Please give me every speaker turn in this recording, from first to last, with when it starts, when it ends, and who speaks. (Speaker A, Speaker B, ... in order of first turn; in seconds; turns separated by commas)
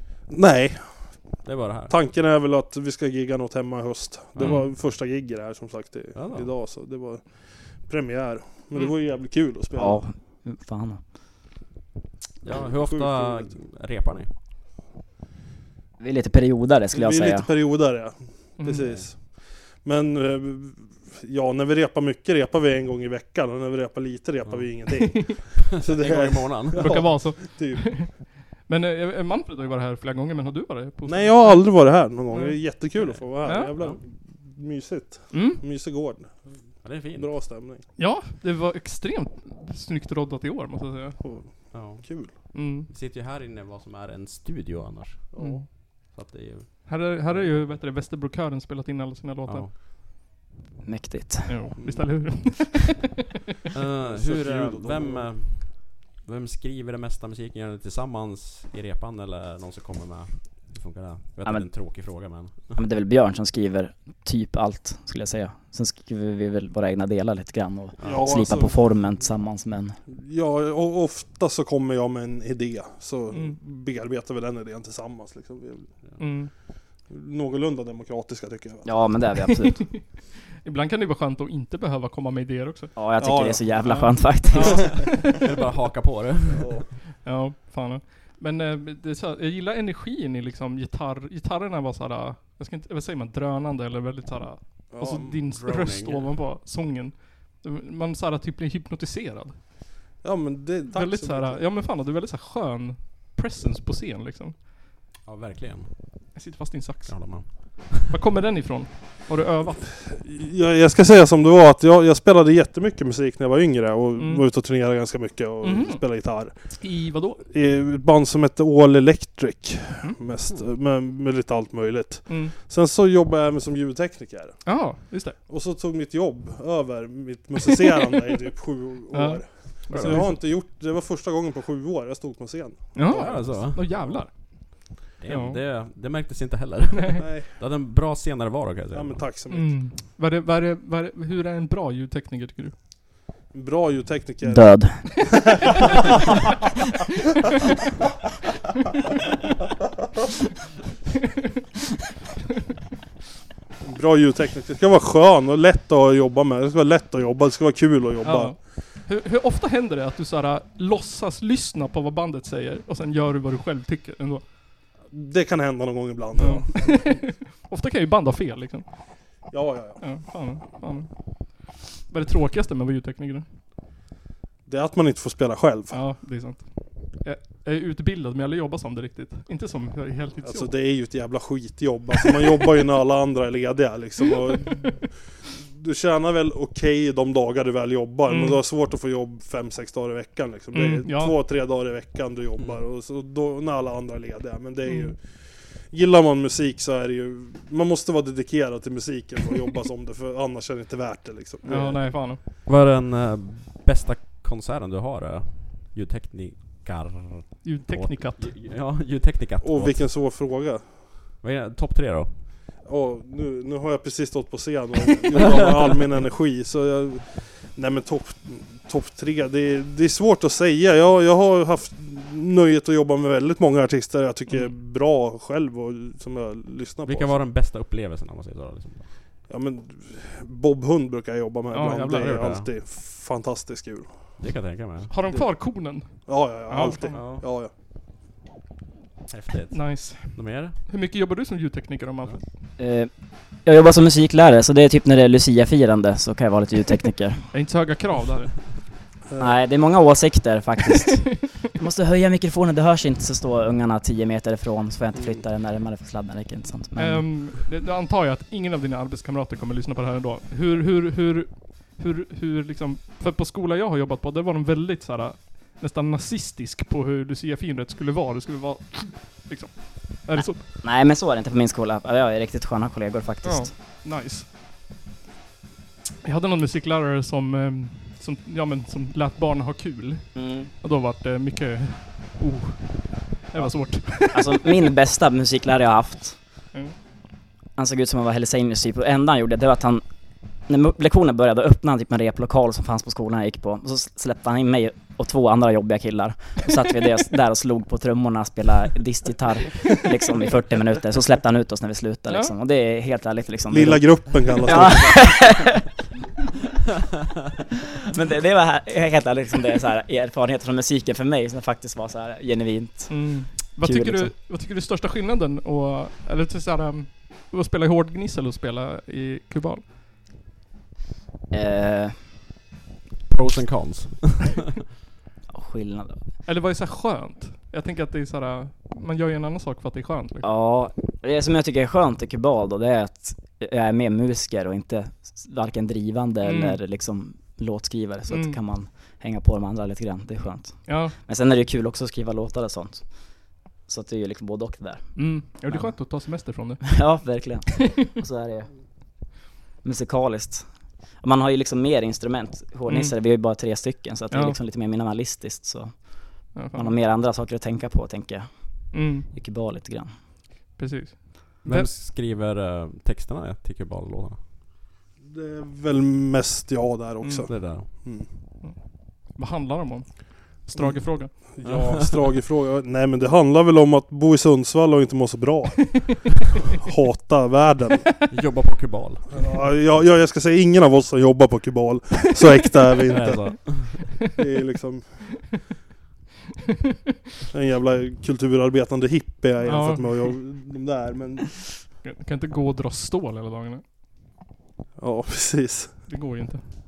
Speaker A: 0.3-10.0, Speaker B: 1.4-1.9, Speaker B: 4.4-4.6, Speaker C: 4.4-4.7, Speaker B: 6.1-6.5, Speaker D: 9.8-11.0, Speaker B: 12.4-14.3, Speaker A: 12.4-13.5, Speaker D: 16.0-17.5, Speaker A: 16.9-28.2, Speaker C: 18.6-19.0, Speaker B: 25.6-27.1, Speaker C: 26.7-33.7, Speaker A: 31.1-36.4, Speaker C: 35.3-35.6, Speaker B: 36.8-37.5, Speaker A: 37.0-37.9, Speaker C: 38.0-41.2, Speaker A: 41.2-42.3, Speaker B: 41.7-47.6, Speaker C: 42.5-42.9, Speaker A: 45.3-45.7, Speaker C: 45.4-45.6, Speaker C: 46.9-49.7, Speaker B: 49.5-49.7, Speaker D: 50.8-51.6, Speaker C: 51.5-53.0, Speaker A: 51.8-52.3, Speaker B: 53.7-62.7, Speaker A: 54.0-55.3, Speaker D: 61.4-62.1, Speaker D: 62.7-70.0, Speaker B: 68.0-68.3, Speaker A: 68.0-68.8, Speaker A: 70.1-75.9, Speaker C: 73.3-73.6, Speaker C: 76.2-76.5, Speaker A: 77.1-79.1, Speaker D: 78.8-79.8, Speaker C: 79.6-82.9, Speaker D: 82.9-85.1, Speaker A: 83.2-83.7, Speaker C: 83.8-85.4, Speaker A: 84.5-85.4, Speaker B: 85.1-86.8, Speaker A: 86.5-86.9, Speaker C: 87.2-99.6, Speaker A: 94.9-95.3, Speaker B: 95.0-96.3, Speaker A: 100.2-101.6, Speaker C: 100.9-104.6, Speaker B: 105.2-106.2, Speaker C: 106.3-109.9, Speaker B: 107.1-108.1, Speaker A: 110.0-116.8, Speaker C: 114.2-114.4, Speaker C: 115.6-117.4, Speaker A: 117.4-124.8, Speaker C: 122.3-122.5, Speaker C: 124.7-125.4, Speaker A: 125.5-134.2, Speaker C: 129.1-130.4, Speaker B: 129.9-130.3, Speaker C: 132.9-135.6, Speaker B: 133.1-134.0, Speaker B: 135.2-139.2, Speaker A: 137.2-137.5, Speaker A: 138.9-139.9, Speaker C: 139.5-142.7, Speaker A: 143.5-145.1, Speaker D: 144.4-145.3, Speaker A: 153.8-158.7, Speaker C: 158.2-164.4, Speaker A: 165.1-167.3, Speaker C: 166.4-168.9, Speaker A: 169.5-170.1, Speaker C: 170.0-173.4, Speaker A: 174.7-176.0, Speaker C: 175.9-180.8, Speaker A: 180.4-202.0, Speaker C: 188.3-188.6, Speaker C: 190.7-191.3, Speaker C: 194.8-195.1, Speaker C: 201.7-202.4, Speaker B: 202.7-210.1, Speaker C: 207.6-208.5, Speaker A: 209.6-210.9, Speaker B: 211.4-212.3, Speaker A: 212.8-227.4, Speaker C: 224.5-224.7, Speaker B: 227.1-229.0, Speaker A: 229.5-234.4, Speaker C: 231.7-232.3, Speaker B: 232.1-232.7, Speaker B: 234.4-235.1, Speaker C: 235.1-237.4, Speaker A: 235.3-237.7, Speaker B: 237.1-237.4, Speaker B: 239.3-240.8, Speaker C: 239.7-242.4, Speaker D: 242.8-247.4, Speaker C: 247.5-248.7, Speaker A: 249.3-249.5, Speaker D: 249.4-257.3, Speaker A: 255.1-255.4, Speaker C: 256.9-270.6, Speaker D: 270.3-273.7, Speaker C: 273.4-274.4, Speaker C: 276.2-284.7, Speaker D: 280.3-280.7, Speaker D: 283.6-286.4, Speaker D: 287.8-305.8, Speaker C: 302.3-302.5, Speaker A: 303.7-305.5, Speaker D: 308.1-314.3, Speaker C: 313.1-319.8, Speaker D: 321.5-322.2, Speaker B: 323.3-324.6, Speaker D: 325.5-326.2, Speaker C: 326.4-330.5, Speaker D: 330.4-348.7, Speaker C: 336.4-336.8, Speaker C: 338.3-338.6, Speaker C: 340.9-341.1, Speaker C: 345.1-347.7, Speaker D: 349.8-360.1, Speaker C: 352.9-353.1, Speaker C: 354.3-354.6, Speaker C: 356.5-356.9, Speaker C: 358.9-359.3, Speaker C: 360.7-361.9, Speaker B: 361.6-364.4, Speaker A: 365.2-368.2, Speaker C: 367.2-368.1, Speaker B: 367.5-367.9, Speaker C: 368.6-371.3, Speaker A: 370.8-378.1, Speaker B: 371.6-372.2, Speaker B: 378.3-379.3, Speaker A: 379.3-385.5, Speaker B: 383.1-384.1, Speaker A: 387.5-391.9, Speaker C: 389.6-390.4, Speaker C: 392.0-393.8, Speaker A: 395.0-396.0, Speaker C: 396.1-396.6